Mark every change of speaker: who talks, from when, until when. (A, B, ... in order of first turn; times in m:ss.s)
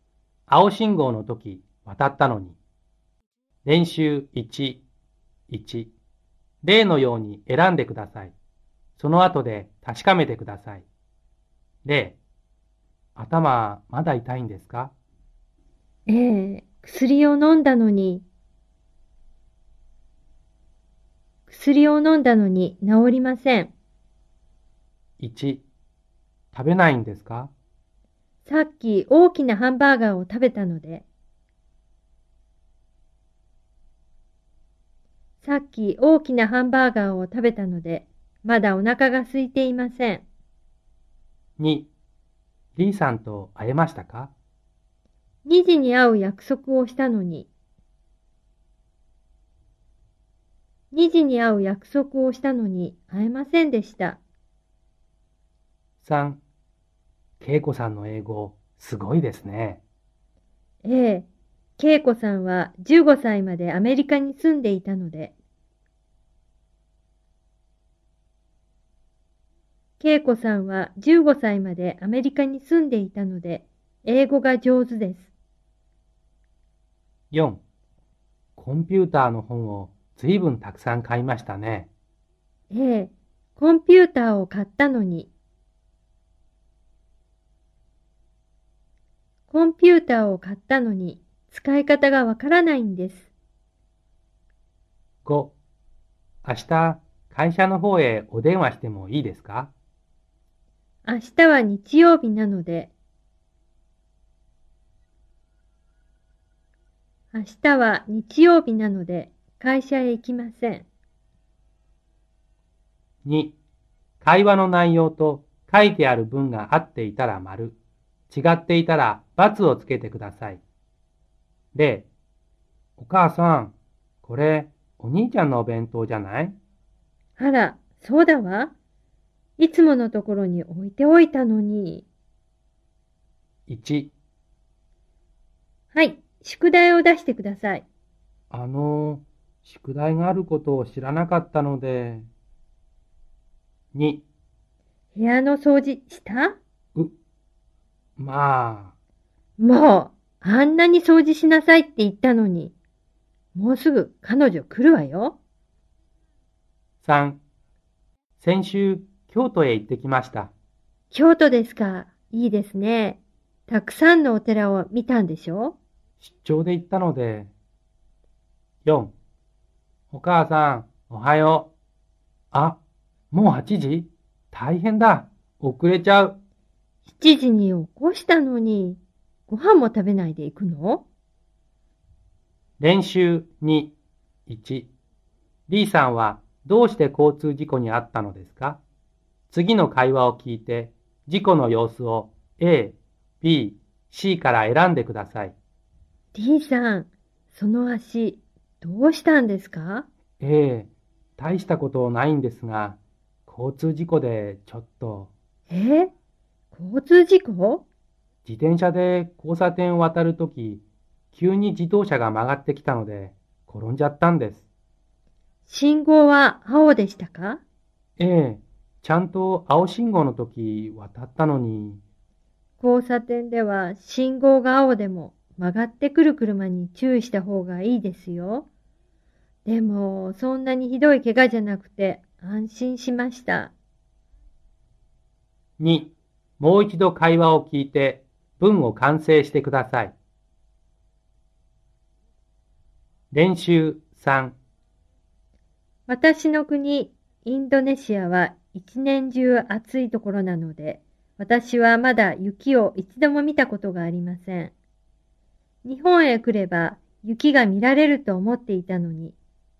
0:00.5-0:02.6 A
0:03.6-0:04.8 A
0:05.5-0:05.9 A
0:06.6-0:08.4 A
0:09.0-0:10.9 A
0:11.8-0:12.2 A
0:13.2-0:14.9 A
0:16.1-0:18.2 B
0:21.5-0:23.7 B
0:25.2-0:25.6 A
0:26.5-0:27.5 A
0:28.4-0:31.0 B
0:35.4-0:40.2 B
0:41.6-0:41.9 A
0:42.8-0:44.3 A
0:45.4-0:47.5 B
0:50.9-0:54.2 B
0:56.0-0:56.4 A
0:57.4-0:59.8 A
1:00.8-1:01.3 B
1:01.8-1:05.3 B
1:10.0-1:15.3 B
1:17.3-1:17.6 A
1:18.6-1:21.9 A
1:22.7-1:25.3 B
1:29.5-1:33.3 B
1:35.2-1:35.6 A
1:36.4-1:39.7 A
1:41.0-1:42.9 B
1:47.3-1:50.9 B
1:53.2-1:53.6 A
1:54.2-1:57.8 A
1:58.3-2:00.6 A
2:01.7-2:02.1 A
2:03.0-2:06.6 A
2:07.4-2:08.7 B
2:09.6-2:12.1 B
2:13.7-2:14.1 A
2:15.9-2:17.8 B
2:18.5-2:22.3 A
2:23.9-2:24.2 A
2:25.2-2:26.6 B
2:28.2-2:28.9 A
2:29.6-2:32.7 B
2:33.6-2:35.4 B
2:37.0-2:37.4 A
2:38.4-2:40.5 A
2:41.1-2:45.8 B
2:46.2-2:47.5 A
2:48.8-2:49.1 A
2:50.1-2:51.7 A
2:52.5-2:52.8 A
2:53.3-2:56.4 A
2:57.1-3:01.1 B
3:02.8-3:03.9 A
3:04.5-3:04.9 A
3:05.7-3:08.8 A
3:09.5-3:15.6 A
3:16.3-3:20.1 B
3:20.4-3:25.3 A
3:25.7-3:26.1 B
3:26.7-3:27.8 B
3:28.4-3:34.6 A
3:35.7-3:37.6 B
3:38.2-3:42.0 A
3:42.8-3:48.7 B
3:49.7-3:53.7 B
3:55.8-4:00.2 A
4:03.3-4:04.6 A
4:06.1-4:14.7 B
4:15.8-4:19.4 B